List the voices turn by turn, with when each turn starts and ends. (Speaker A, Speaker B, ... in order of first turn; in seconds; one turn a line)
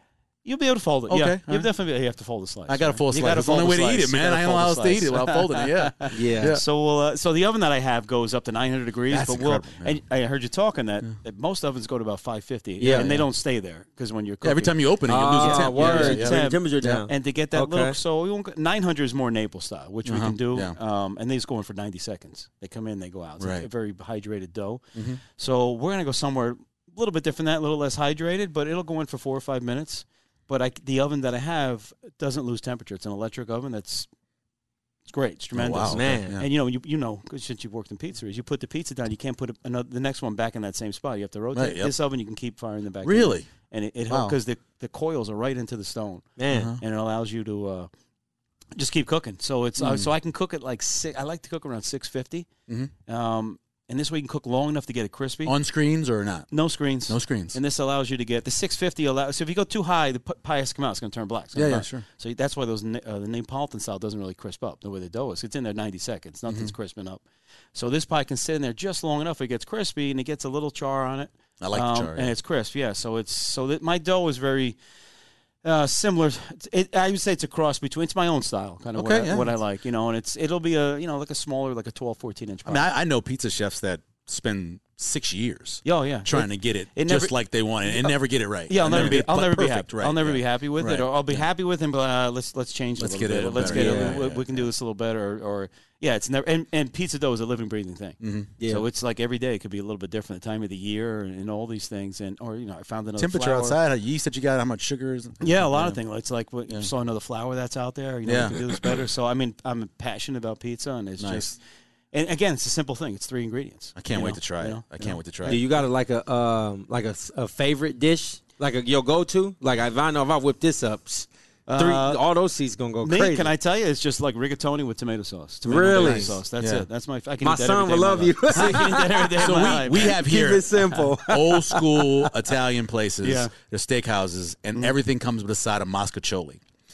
Speaker A: 0.4-34.1
Speaker B: 1.1-1.7
Speaker B: 2.7-6.6
Speaker C: 6.1-6.5
Speaker B: 9.1-9.9
Speaker C: 12.8-13.1
Speaker B: 12.9-13.2
Speaker B: 14.4-17.0
Speaker C: 15.1-17.9
Speaker B: 20.0-20.8
Speaker B: 23.4-23.7
Speaker B: 24.9-25.2
Speaker A: 35.1-47.9
Speaker B: 35.5-36.5
Speaker C: 35.9-36.4
Speaker B: 41.5-41.9
Speaker B: 43.0-43.5
Speaker B: 44.1-44.4
Speaker C: 46.4-46.7
Speaker B: 46.5-46.8
Speaker A: 48.8-52.5
Speaker B: 49.8-50.1
Speaker A: 53.1-55.5
Speaker B: 55.4-56.5
Speaker A: 56.5-67.2
Speaker B: 57.1-57.6
Speaker B: 61.5-62.0
Speaker B: 66.5-66.7
Speaker A: 67.7-74.8
Speaker B: 71.6-72.3
Speaker A: 75.6-82.9
Speaker B: 78.9-79.5
Speaker B: 82.7-91.4
Speaker A: 85.8-87.3
Speaker A: 87.8-88.2
Speaker A: 88.7-103.8
Speaker B: 93.0-94.6
Speaker C: 93.6-94.2
Speaker B: 98.2-98.5
Speaker C: 98.6-98.8
Speaker B: 103.2-106.0
Speaker A: 105.4-111.6
Speaker B: 108.2-109.0
Speaker B: 111.2-111.5
Speaker A: 112.1-115.7
Speaker B: 114.0-115.6
Speaker C: 115.5-123.5
Speaker A: 121.7-122.2
Speaker A: 123.0-130.2
Speaker C: 125.7-126.4
Speaker B: 126.0-126.8
Speaker C: 127.4-132.0
Speaker B: 128.5-136.6
Speaker A: 130.7-131.0
Speaker A: 133.2-133.5